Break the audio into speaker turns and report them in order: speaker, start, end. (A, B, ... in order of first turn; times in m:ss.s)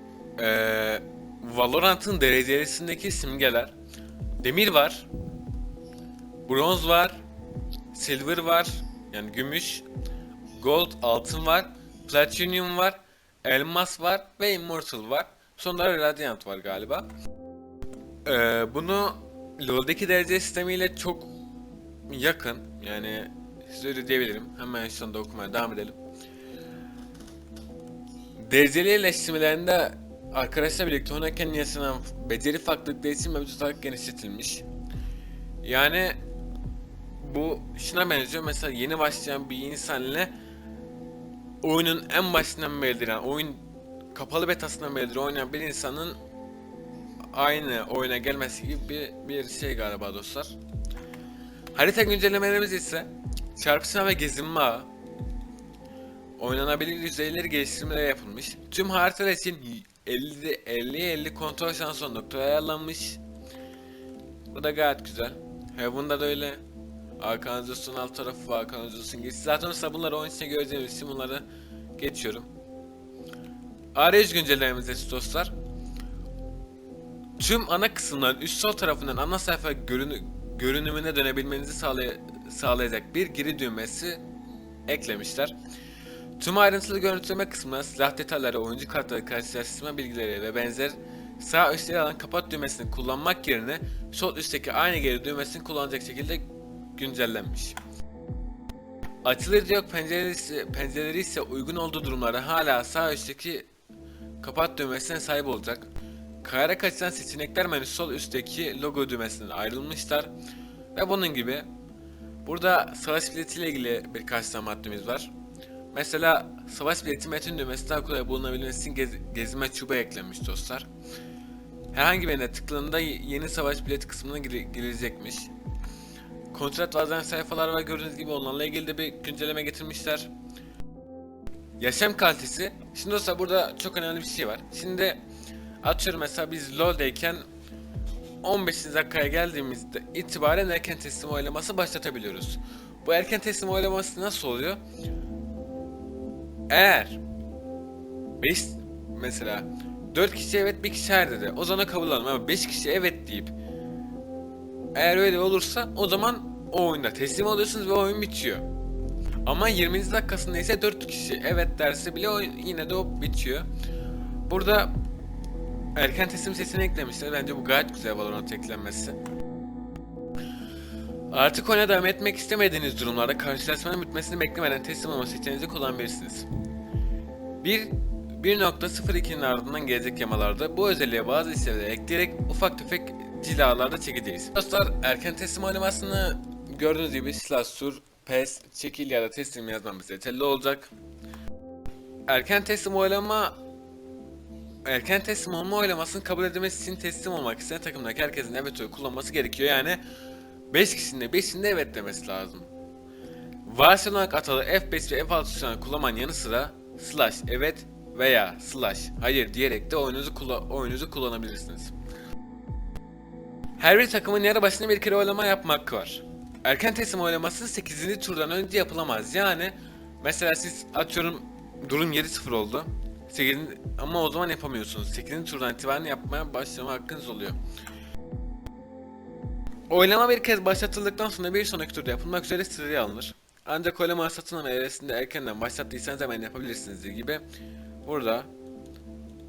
0:00.4-0:03.7 A
0:04.4-0:05.1 A
0:06.4-0:07.2 A
0:07.9-0:09.8 A
0:10.5-0:17.1 A
0:18.2-0:21.3 A
0:22.1-0:26.0 A
0:28.4-0:34.6 A
0:35.6-0:36.2 A
0:37.2-0:40.3 A
0:41.6-0:46.2 A
0:47.3-0:50.5 A
0:51.7-0:54.9 A
0:56.4-1:03.2 A
1:04.5-1:06.6 A
1:07.2-1:11.4 A
1:12.0-1:12.5 A
1:13.9-1:15.5 A
1:17.4-1:24.2 A
1:24.9-1:25.5 A
1:26.4-1:37.8 A
1:39.2-1:43.7 A
1:44.4-1:45.9 A
1:46.4-1:50.3 A
1:50.9-1:51.6 A
1:52.4-1:55.3 A
1:55.9-2:00.9 A
2:01.9-2:05.5 A
2:06.5-2:10.3 A
2:11.8-2:15.2 A
2:15.8-2:17.4 A
2:18.4-2:24.8 A
2:26.7-2:27.2 A
2:28.4-2:33.5 A
2:34.9-2:38.6 A
2:39.4-2:43.7 A
2:44.5-2:45.0 A
2:45.9-2:49.2 A
2:51.3-2:56.5 A
2:57.6-3:10.9 A
3:12.3-3:13.6 A
3:14.8-3:20.0 A
3:20.7-3:22.7 A
3:23.6-3:31.9 A
3:33.8-3:47.6 A
3:49.9-3:57.4 A
3:58.0-3:58.5 A